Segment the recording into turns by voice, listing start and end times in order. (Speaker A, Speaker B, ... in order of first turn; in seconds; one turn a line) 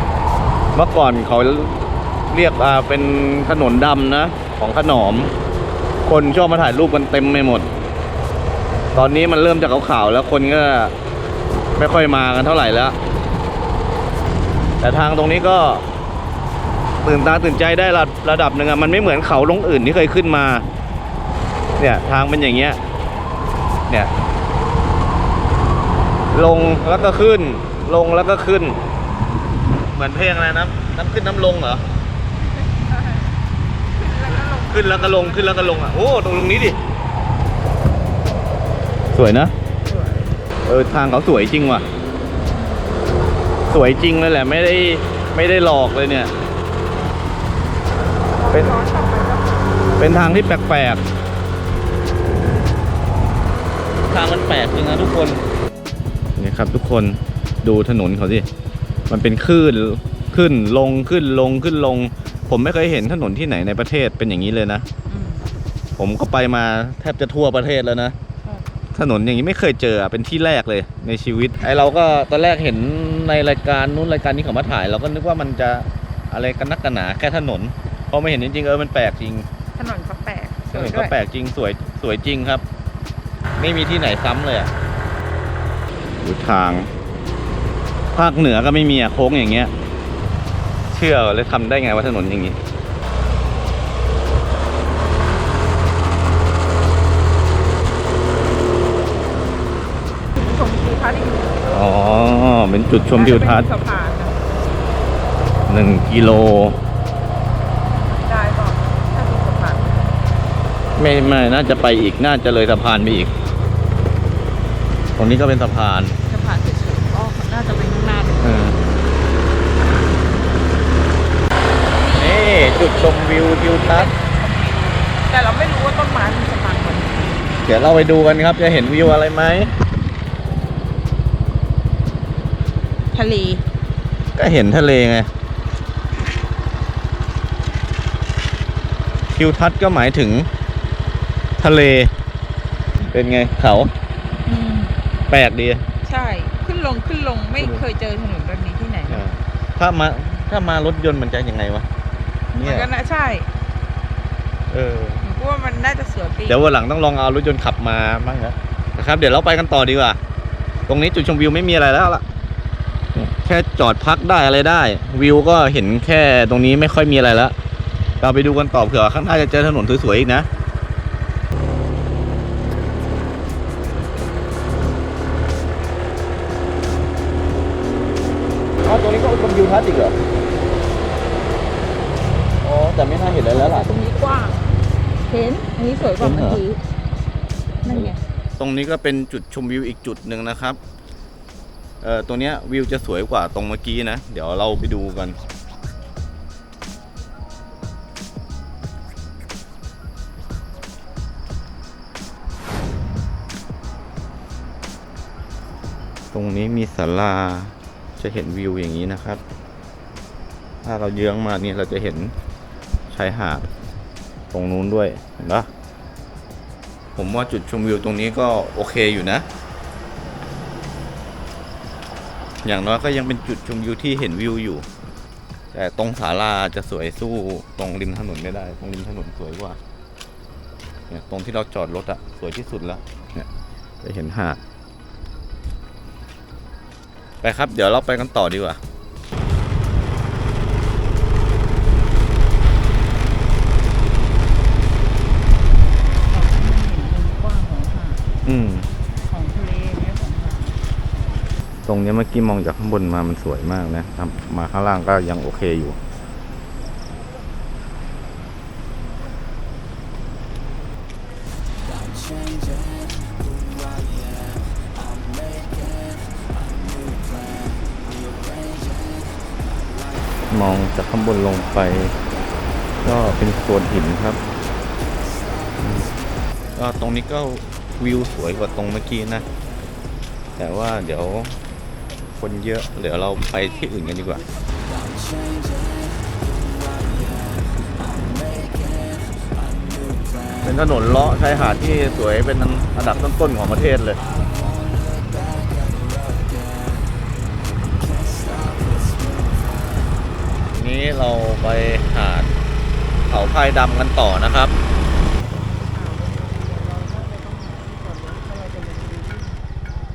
Speaker A: 0.7-1.7
Speaker A: 2.3-5.3
Speaker A: 6.0-7.7
Speaker A: 8.9-10.9
Speaker A: 11.8-12.9
Speaker A: 14.8-15.8
Speaker A: 17.0-20.6
Speaker A: 21.8-22.8
Speaker A: 26.3-28.8
Speaker A: 29.9-31.8
Speaker B: 32.8-33.2
Speaker B: 34.0-35.8
Speaker A: 34.3-36.8
Speaker A: 39.1-39.5
Speaker B: 39.8-40.3
Speaker A: 40.6-41.8
Speaker A: 43.7-46.3
Speaker B: 48.3-50.1
Speaker A: 50.0-51.0
Speaker A: 54.1-55.4
Speaker A: 56.4-58.5
Speaker A: 59.1-64.8
Speaker B: 65.1-65.5
Speaker A: 66.0-68.2
Speaker A: 68.9-79.5
Speaker B: 79.8-81.1
Speaker A: 80.7-82.6
Speaker A: 83.6-84.7
Speaker A: 86.2-86.9
Speaker A: 88.1-89.7
Speaker A: 90.9-92.6
Speaker B: 100.3-101.9
Speaker A: 101.7-103.7
Speaker B: 103.0-104.4
Speaker A: 105.7-106.8
Speaker B: 108.2-110.1
Speaker A: 111.0-113.3
Speaker A: 115.2-116.1
Speaker B: 116.2-118.4
Speaker A: 118.4-118.8
Speaker A: 122.1-124.1
Speaker B: 123.8-127.5
Speaker A: 127.6-129.7
Speaker B: 133.1-133.6
Speaker A: 134.3-135.3
Speaker A: 139.3-140.5
Speaker A: 141.6-142.1
Speaker A: 143.1-143.9
Speaker B: 144.4-144.9
Speaker A: 145.3-145.8
Speaker B: 146.0-149.2
Speaker A: 147.6-147.8
Speaker A: 149.1-151.9
Speaker A: 152.5-152.9
Speaker B: 152.6-153.5
Speaker A: 154.7-155.2
Speaker B: 155.2-156.6
Speaker A: 156.5-160.2
Speaker A: 160.9-162.2
Speaker A: 163.1-167.5
Speaker A: 168.2-170.5
Speaker A: 178.8-180.2
Speaker A: 182.6-183.9
Speaker B: 183.5-184.6
Speaker B: 185.3-186.8
Speaker A: 186.2-186.6
Speaker B: 187.8-188.2
Speaker A: 187.9-190.8
Speaker A: 192.0-195.4
Speaker A: 206.3-209.4
Speaker A: 210.8-212.3
Speaker A: 213.1-213.7
Speaker A: 214.5-215.7
Speaker A: 217.2-219.4
Speaker A: 222.6-224.9
Speaker A: 225.7-229.8
Speaker A: 231.1-233.5
Speaker A: 234.0-234.6
Speaker A: 237.4-238.8
Speaker B: 246.3-248.2
Speaker A: 248.4-248.9
Speaker B: 249.3-250.8
Speaker A: 251.8-256.0
Speaker C: 262.3-269.1
Speaker A: 270.5-272.1
Speaker A: 273.0-274.4
Speaker A: 275.8-276.1
Speaker A: 276.7-279.5
Speaker A: 280.6-281.6
Speaker A: 282.3-284.4
Speaker C: 285.4-290.2
Speaker A: 290.6-294.2
Speaker C: 294.8-296.9
Speaker C: 298.2-299.6
Speaker A: 300.7-302.5
Speaker A: 303.3-304.7
Speaker B: 305.4-309.6